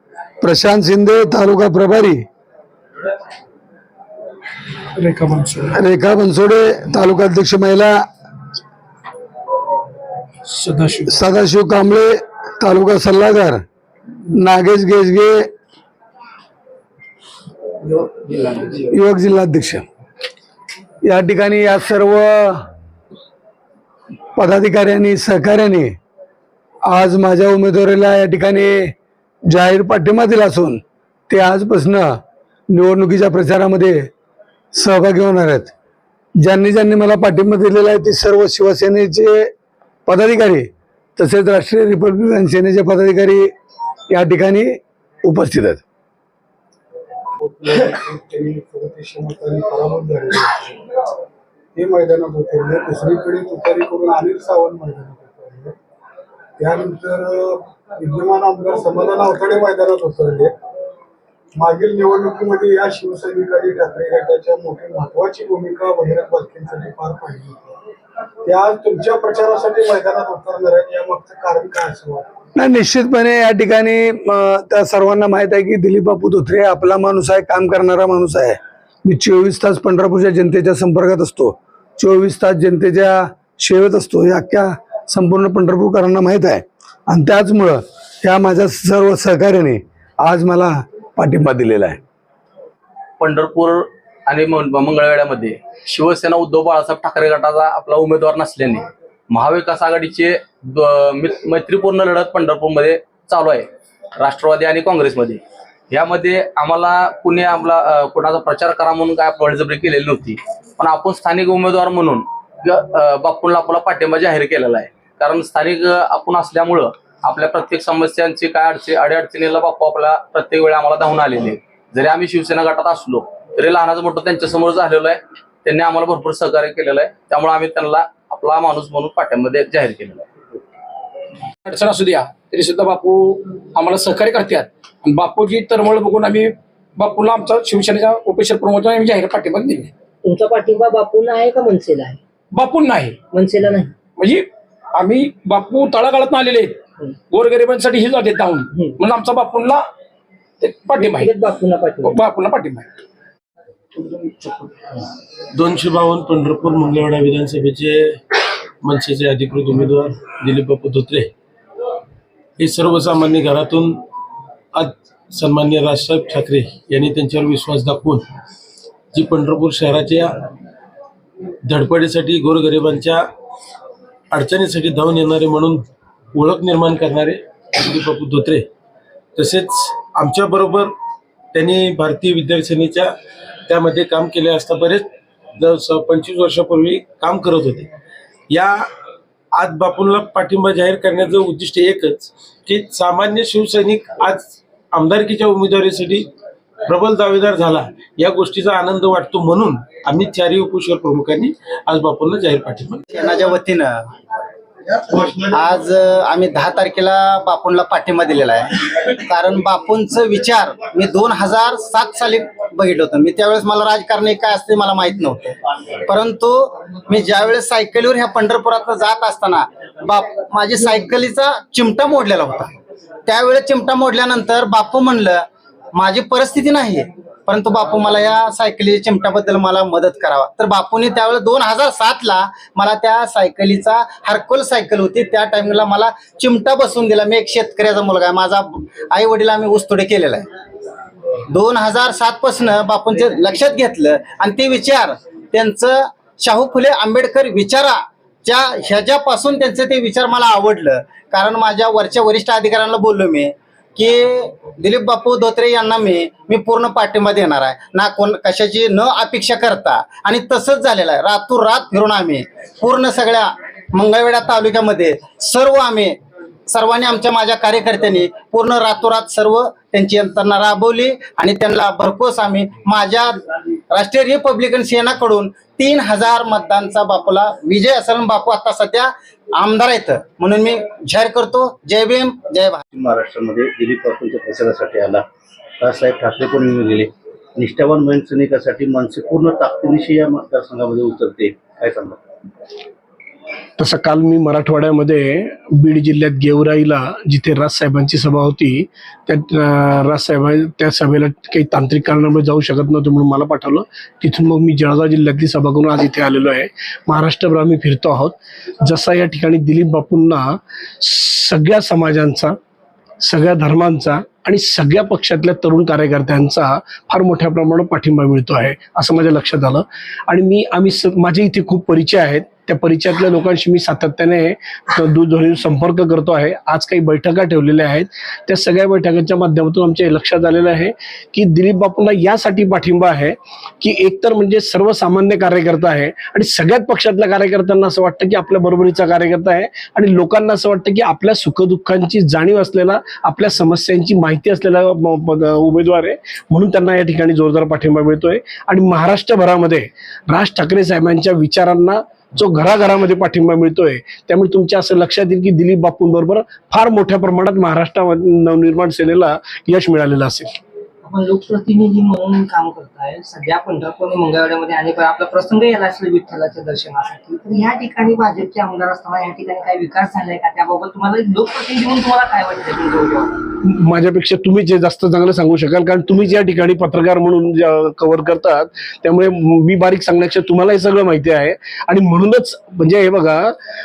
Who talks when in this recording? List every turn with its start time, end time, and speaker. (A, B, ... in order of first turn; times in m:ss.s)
0:00.4-0:02.2 A
0:05.7-0:08.0 A
0:10.5-0:10.8 B
0:11.1-0:13.6 A
0:14.4-0:15.5 A
0:18.7-0:19.8 A
0:21.0-0:22.6 A
0:24.3-0:25.9 A
0:26.9-0:28.9 A
0:29.5-0:32.2 A
0:32.7-0:34.1 A
0:34.7-0:35.7 A
0:36.4-0:39.5 A
0:40.1-0:43.5 A
0:44.1-0:45.8 A
0:48.1-0:50.2 C
0:51.8-0:55.2 C
0:56.7-0:57.1 C
0:58.1-1:00.4 C
1:01.7-1:07.4 C
1:08.6-1:12.1 C
1:12.6-1:32.0 A
1:33.2-1:43.7 D
1:44.2-1:45.4 D
1:45.9-2:10.2 D
2:11.6-2:19.9 B
2:20.2-2:22.2 E
2:22.5-2:23.2 B
2:23.3-2:23.9 E
2:24.2-2:29.9 B
2:30.6-2:31.4 B
2:31.0-2:32.2 E
2:32.0-2:32.9 B
2:34.0-2:34.7 B
2:35.5-2:41.3 F
2:42.6-2:44.0 F
2:44.8-2:48.2 F
2:49.1-2:50.4 F
2:51.6-2:53.2 F
2:54.3-2:58.6 F
2:59.4-3:00.9 F
3:01.5-3:03.1 F
3:03.7-3:05.1 F
3:05.6-3:07.9 F
3:08.5-3:08.8 F
3:09.5-3:16.3 F
3:16.9-3:23.0 F
3:23.1-3:24.0 G
3:25.1-3:42.7 G
3:43.2-4:00.5 G
4:01.5-4:33.4 G
4:33.9-4:42.8 G
4:42.9-4:45.2 H
4:45.8-4:47.0 H
4:47.6-4:52.0 H
4:53.8-5:12.6 I
5:13.2-6:00.6 I
6:01.0-6:13.2 E
6:13.6-6:23.6 I